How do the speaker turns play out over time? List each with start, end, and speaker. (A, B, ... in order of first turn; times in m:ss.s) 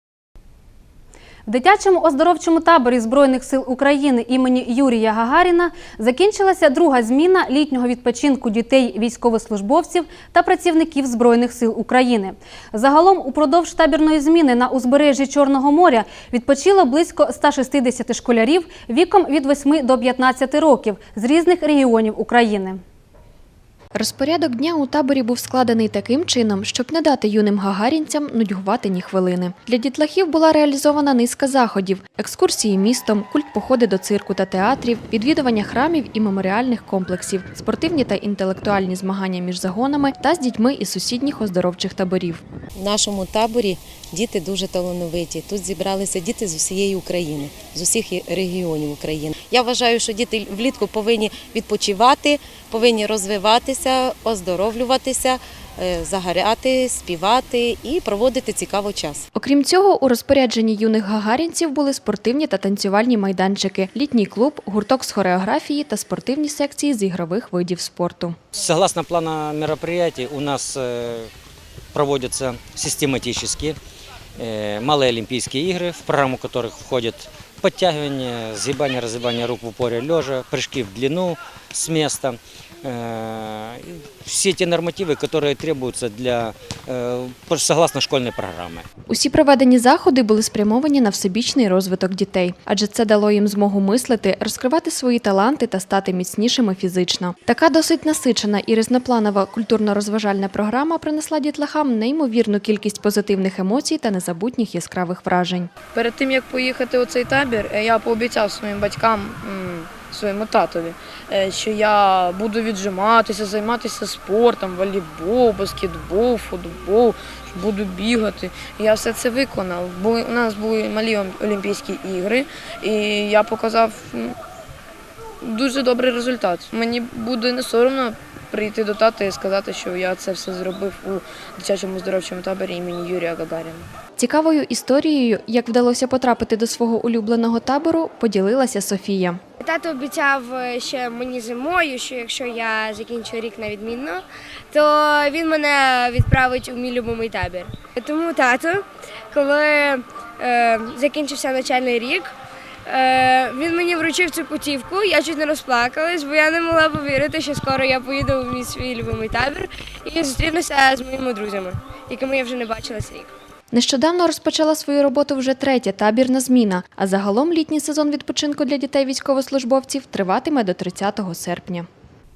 0:01.4-0:22.8 A
0:23.9-0:42.4 B
0:42.7-0:59.2 C
0:59.3-1:08.4 B
1:08.5-1:11.3 D
1:11.9-1:13.8 D
1:14.4-1:28.9 D
1:29.1-1:45.7 B
1:45.9-2:04.4 E
2:05.4-2:13.8 E
2:14.2-2:19.4 B
2:19.6-2:32.3 F
2:32.9-2:43.3 F
2:43.7-2:51.9 B